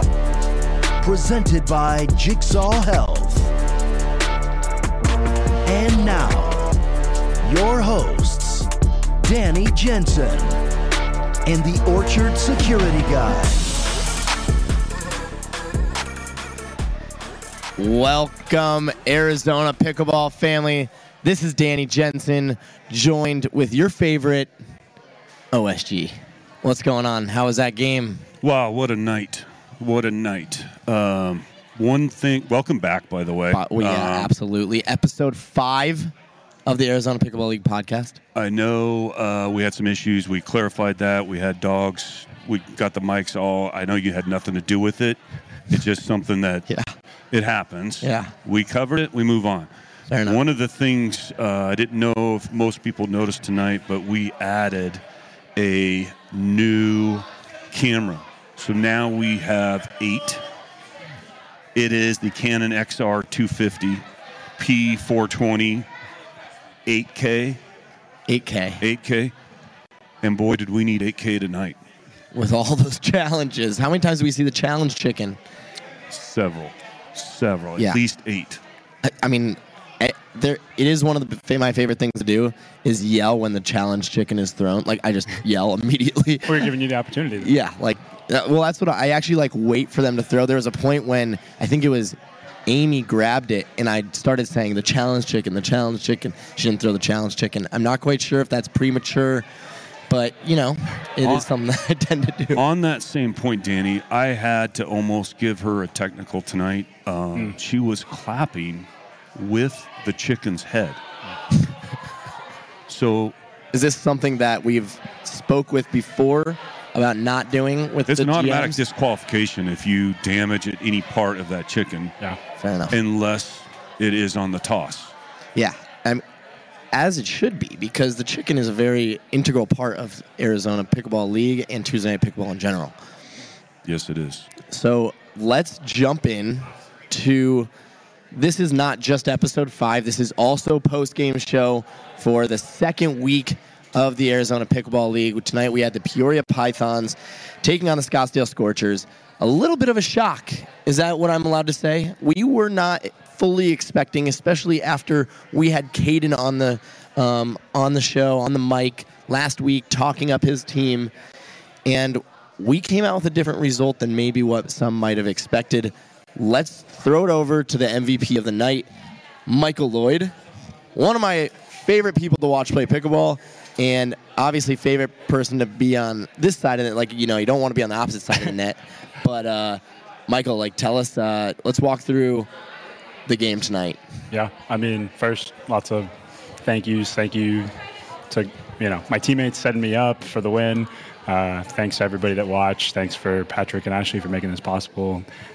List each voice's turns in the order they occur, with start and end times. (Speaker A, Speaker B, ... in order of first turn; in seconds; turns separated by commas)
Speaker A: 1.0-3.5, Speaker A: 5.6-6.7, Speaker A: 7.4-8.7, Speaker A: 9.2-10.6, Speaker A: 11.4-13.7, Speaker B: 17.8-24.5, Speaker B: 25.5-28.3, Speaker C: 28.4-34.3, Speaker B: 33.5-36.1, Speaker B: 36.6-38.2, Speaker C: 38.3-45.2, Speaker C: 45.7-46.7, Speaker C: 47.3-49.7, Speaker B: 48.0-48.3, Speaker B: 50.1-50.4, Speaker C: 50.2-55.0, Speaker C: 55.5-60.4, Speaker C: 61.7-64.0, Speaker C: 64.6-65.9, Speaker C: 66.8-67.6, Speaker B: 68.3-68.8, Speaker C: 68.8-69.3, Speaker C: 70.2-71.8, Speaker B: 72.3-75.4, Speaker C: 76.1-78.6, Speaker B: 79.0-86.7, Speaker D: 86.4-87.5, Speaker B: 87.4-99.5, Speaker B: 100.1-102.6, Speaker C: 101.2-101.5, Speaker C: 102.5-111.0, Speaker C: 112.9-113.3, Speaker B: 113.7-118.8, Speaker C: 118.1-122.2, Speaker B: 122.6-123.0, Speaker C: 122.9-125.1, Speaker B: 125.5-126.2, Speaker B: 126.9-132.9, Speaker C: 133.8-134.5, Speaker B: 134.7-137.7, Speaker B: 138.3-161.1, Speaker B: 161.8-168.9, Speaker B: 169.4-170.3, Speaker B: 170.9-182.5, Speaker B: 183.3-184.0, Speaker D: 184.3-186.1, Speaker D: 186.6-187.7, Speaker D: 188.3-195.2